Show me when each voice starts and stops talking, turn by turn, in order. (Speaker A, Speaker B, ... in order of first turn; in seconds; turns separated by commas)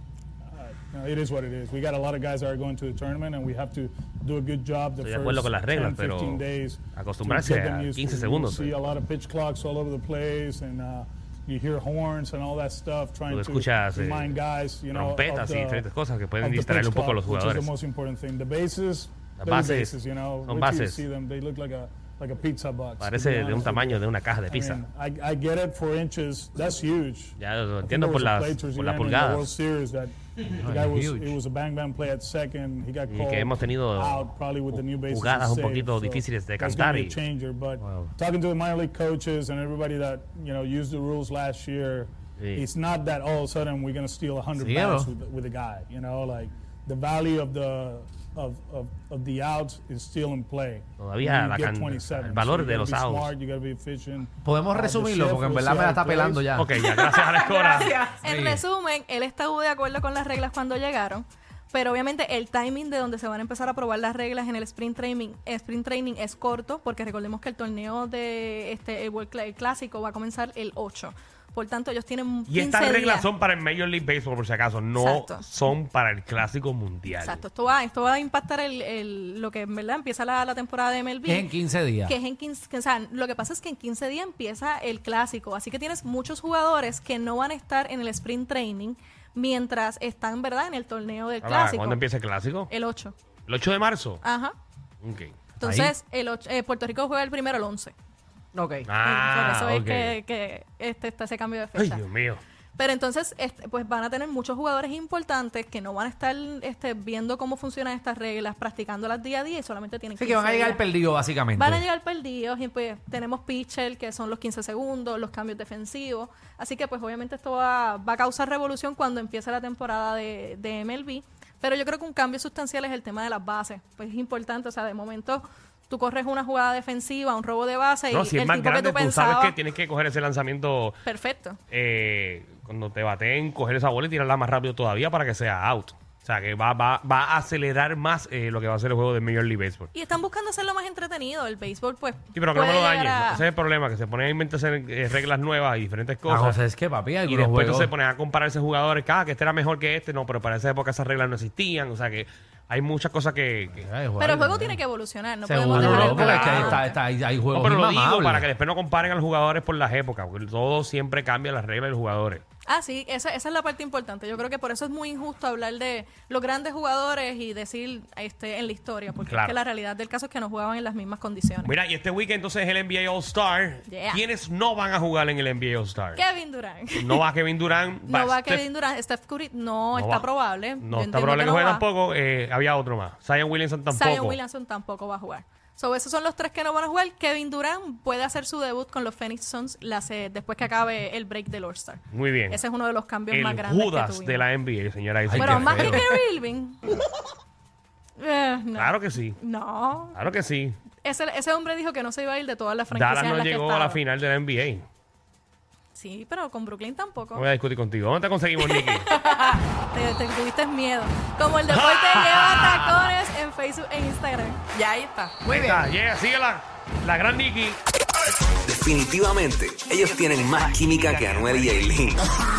Speaker A: 0.5-15.9, Speaker B: 5.0-6.4, Speaker B: 6.9-8.7, Speaker B: 13.3-14.4, Speaker B: 14.9-17.7, Speaker A: 16.4-56.6, Speaker B: 19.4-21.0, Speaker B: 23.0-24.8, Speaker B: 27.4-29.5, Speaker C: 30.6-31.4, Speaker B: 33.1-37.2, Speaker B: 42.4-42.6, Speaker C: 44.6-45.1, Speaker B: 51.0-53.3, Speaker C: 54.4-56.7, Speaker B: 56.5-57.9, Speaker D: 56.9-73.3, Speaker E: 57.0-58.1, Speaker C: 58.2-58.6, Speaker B: 72.5-77.4, Speaker D: 75.0-75.4, Speaker D: 77.2-81.5, Speaker C: 81.2-82.2, Speaker D: 82.0-92.0, Speaker B: 91.4-92.7, Speaker D: 92.7-93.1, Speaker B: 93.5-94.2, Speaker D: 94.2-94.5, Speaker B: 95.0-95.3, Speaker C: 95.6-95.9, Speaker D: 95.6-97.9, Speaker E: 98.5-98.9, Speaker B: 98.9-100.2, Speaker D: 99.0-102.0, Speaker B: 101.7-102.4, Speaker D: 102.8-110.8, Speaker C: 110.2-111.8, Speaker D: 111.5-129.6, Speaker B: 128.1-131.0, Speaker D: 131.0-131.6, Speaker B: 131.7-139.9, Speaker D: 139.9-143.4, Speaker B: 142.3-146.6, Speaker C: 146.2-147.9, Speaker B: 147.2-153.9, Speaker C: 153.8-154.8, Speaker D: 154.2-157.0, Speaker C: 155.4-158.5, Speaker B: 155.7-156.8, Speaker B: 157.5-162.4, Speaker D: 162.7-171.7, Speaker B: 169.3-169.5, Speaker B: 171.6-176.2, Speaker D: 173.9-174.2, Speaker D: 176.2-177.2, Speaker B: 176.9-178.6, Speaker D: 178.1-181.8, Speaker B: 179.9-180.3, Speaker B: 180.8-184.4, Speaker D: 183.9-194.5, Speaker B: 192.1-192.6, Speaker B: 193.3-196.0, Speaker C: 195.2-196.1, Speaker D: 195.3-196.8, Speaker D: 198.2-200.2, Speaker B: 198.7-199.4, Speaker B: 200.1-200.8, Speaker D: 201.0-204.0, Speaker B: 202.9-204.8, Speaker D: 205.9-207.4, Speaker B: 207.3-209.1, Speaker D: 208.6-214.6, Speaker B: 211.7-213.1, Speaker E: 214.7-215.8, Speaker B: 215.5-217.8, Speaker F: 218.6-222.2